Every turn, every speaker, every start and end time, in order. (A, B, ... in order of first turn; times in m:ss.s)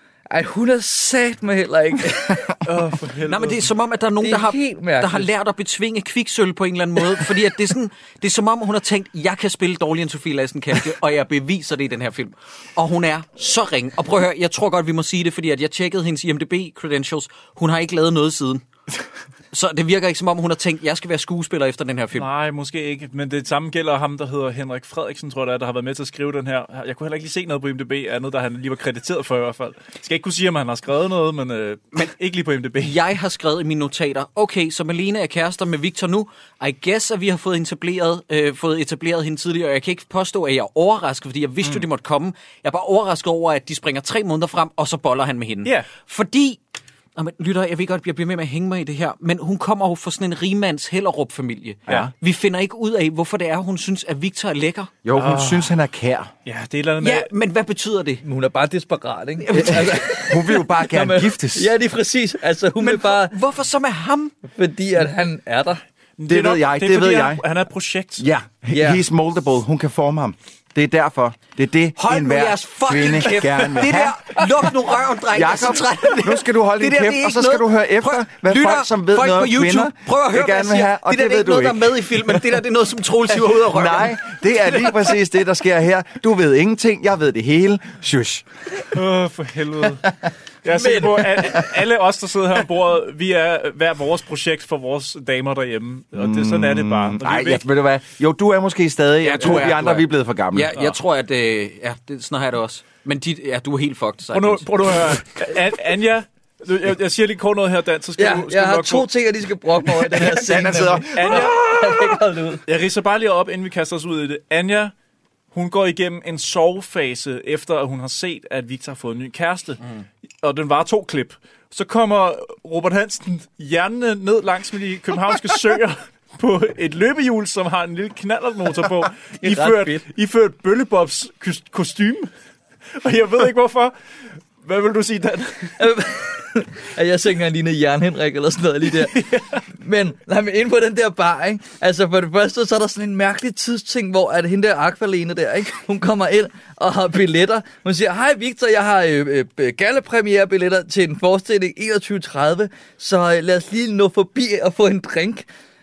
0:00.3-0:02.6 A
0:02.6-0:03.7 B
0:03.3-0:18.6 C
0:04.2-0:05.3 A
0:19.5-0:22.3 C
0:22.2-0:33.0 B
0:32.8-0:46.6 C
0:47.2-0:54.9 C
0:51.9-0:52.1 D
0:55.0-0:56.3 D
0:55.1-0:55.8 B
0:56.4-0:57.3 B
0:57.0-0:58.2 C
0:58.2-1:03.4 A
0:59.4-0:59.9 C
0:59.5-1:01.7 D
1:02.8-1:04.4 C
1:04.5-1:05.8 A
1:06.2-1:08.3 B
1:06.3-1:07.4 D
1:08.2-1:14.2 D
1:08.7-1:09.0 A
1:12.0-1:24.2 C
1:15.3-1:22.4 D
1:23.5-1:28.5 D
1:28.9-1:30.1 B
1:30.6-1:37.6 B
1:30.7-1:31.7 A
1:36.1-1:40.7 D
1:39.2-1:44.7 C
1:44.3-1:49.1 B
1:48.2-1:52.6 A
1:50.2-1:50.6 B
1:50.3-1:52.0 D
1:51.1-1:51.7 B
1:52.7-1:54.9 B
1:55.5-1:59.8 B
2:00.4-2:12.3 B
2:09.4-2:10.0 A
2:13.0-2:13.9 B
2:14.6-2:15.8 B
2:15.8-2:35.5 A
2:19.1-2:19.6 B